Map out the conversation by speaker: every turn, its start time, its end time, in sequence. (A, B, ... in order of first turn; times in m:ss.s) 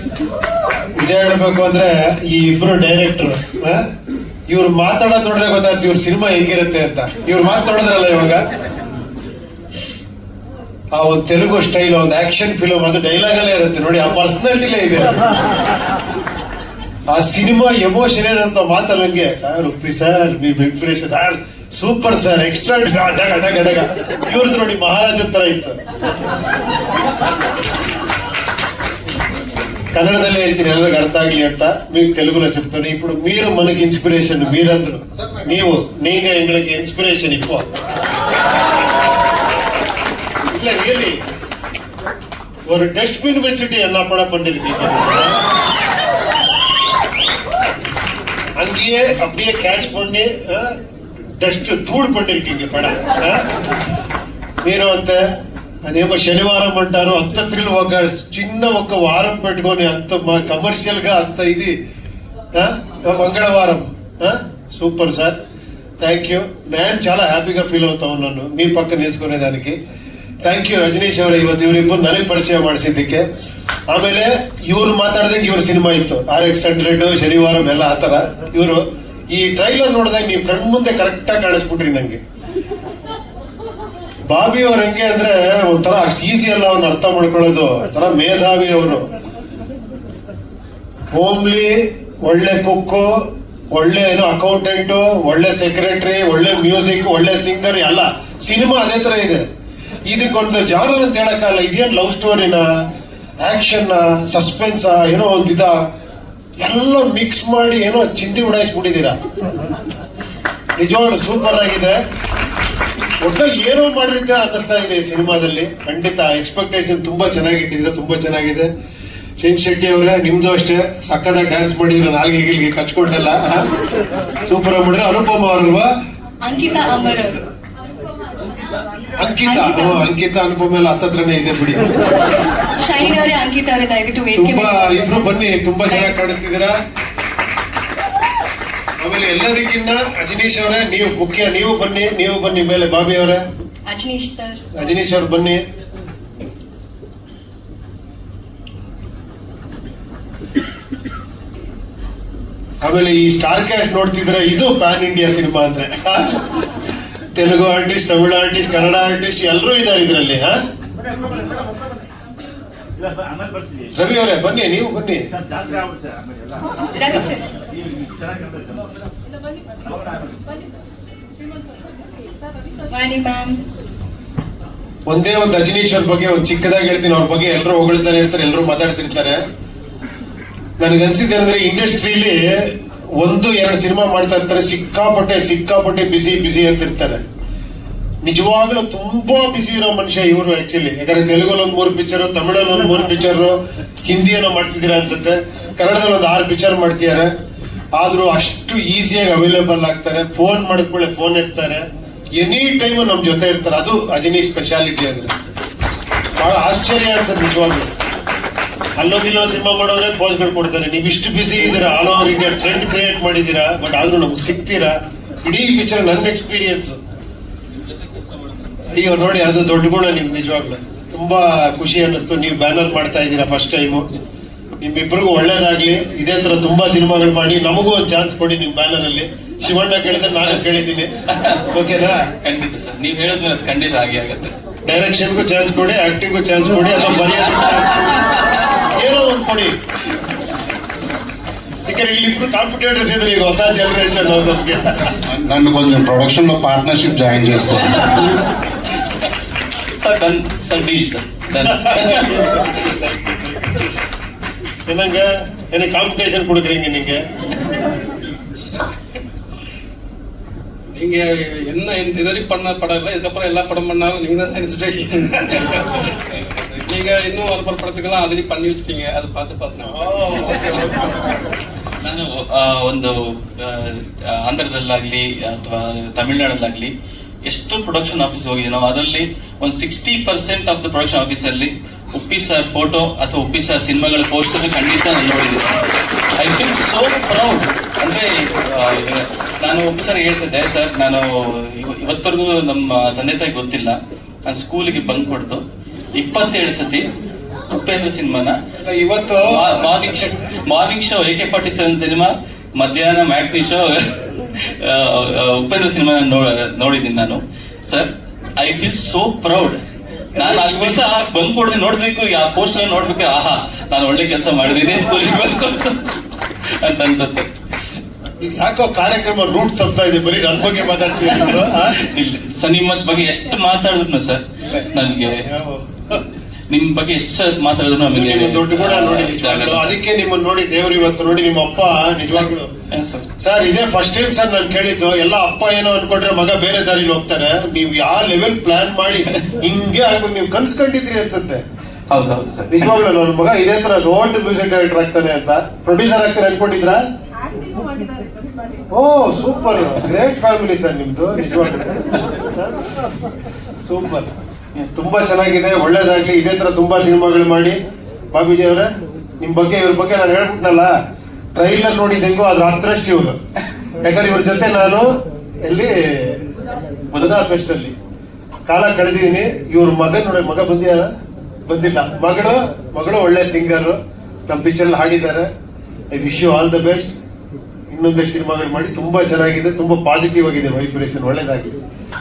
0:01.0-0:03.8 A
0:04.5-0:08.4 A
0:10.9-0:15.2 A
0:17.1-0:25.8 A
0:29.9-0:37.6 A
0:40.5-0:41.2 A
0:42.6-0:45.4 A
0:48.6-0:50.7 A
0:51.4-0:53.4 A
0:54.6-0:55.2 A
0:55.8-1:01.7 A
1:02.5-1:05.4 A
1:06.0-1:09.8 A
1:10.4-1:13.2 A
1:13.9-1:22.2 A
1:24.3-1:29.1 A
1:31.1-1:39.4 A
1:40.1-1:42.7 A
1:43.4-1:45.8 A
1:46.6-1:49.2 A
1:50.8-1:52.0 A
1:53.2-1:58.7 A
1:59.4-2:03.6 A
2:04.4-2:05.9 A
2:06.4-2:07.4 B
2:09.2-2:11.9 A
2:09.4-2:10.1 B
2:12.8-2:14.9 B
2:14.3-2:16.7 A
2:19.0-2:23.4 A
2:23.9-2:24.6 B
2:24.7-2:25.6 A
2:32.8-2:36.4 A
2:37.3-2:40.6 A
2:43.9-2:45.2 A
2:46.9-2:47.4 B
2:52.9-2:53.6 B
2:55.1-2:59.4 A
3:00.8-3:07.2 A
3:08.2-3:17.3 A
3:17.9-3:25.3 A
3:26.4-3:27.9 A
3:29.0-3:37.0 A
3:37.8-3:38.9 C
3:38.9-3:44.1 A
3:44.8-3:51.1 A
3:51.3-3:54.5 C
3:51.7-3:52.3 A
3:54.8-3:59.7 A
3:56.9-3:58.5 C
4:01.8-4:05.2 A
4:05.3-4:08.5 D
4:07.8-4:12.5 C
4:11.6-4:13.7 A
4:14.9-4:17.2 A
4:20.9-4:30.4 E
4:29.9-4:31.4 A
4:32.0-4:36.9 C
4:37.5-4:45.8 C
4:46.4-4:55.6 C
4:56.2-4:57.0 C
4:57.7-4:58.6 C
4:58.8-5:00.3 A
4:59.4-5:09.8 C
5:10.3-5:11.0 A
5:10.3-5:16.1 C
5:16.8-5:17.5 C
5:18.4-5:22.0 A
5:21.3-5:25.4 C
5:24.6-5:24.9 A
5:25.4-5:26.2 A
5:26.7-5:30.0 C
5:28.1-5:32.7 A
5:32.9-5:33.3 C
5:33.4-5:41.6 A
5:42.1-5:42.9 C
5:42.7-5:47.0 A
5:48.9-5:51.9 A
5:53.8-5:54.3 A
5:54.9-5:57.8 A
5:58.3-5:58.9 A
5:59.4-6:00.9 A
6:01.5-6:03.4 A
6:04.0-6:05.1 A
6:05.6-6:06.4 A
6:07.1-6:07.4 C
6:07.2-6:07.9 A
6:08.6-6:11.1 A
6:11.7-6:14.0 A
6:14.5-6:15.5 A
6:16.1-6:17.1 A
6:17.9-6:21.8 A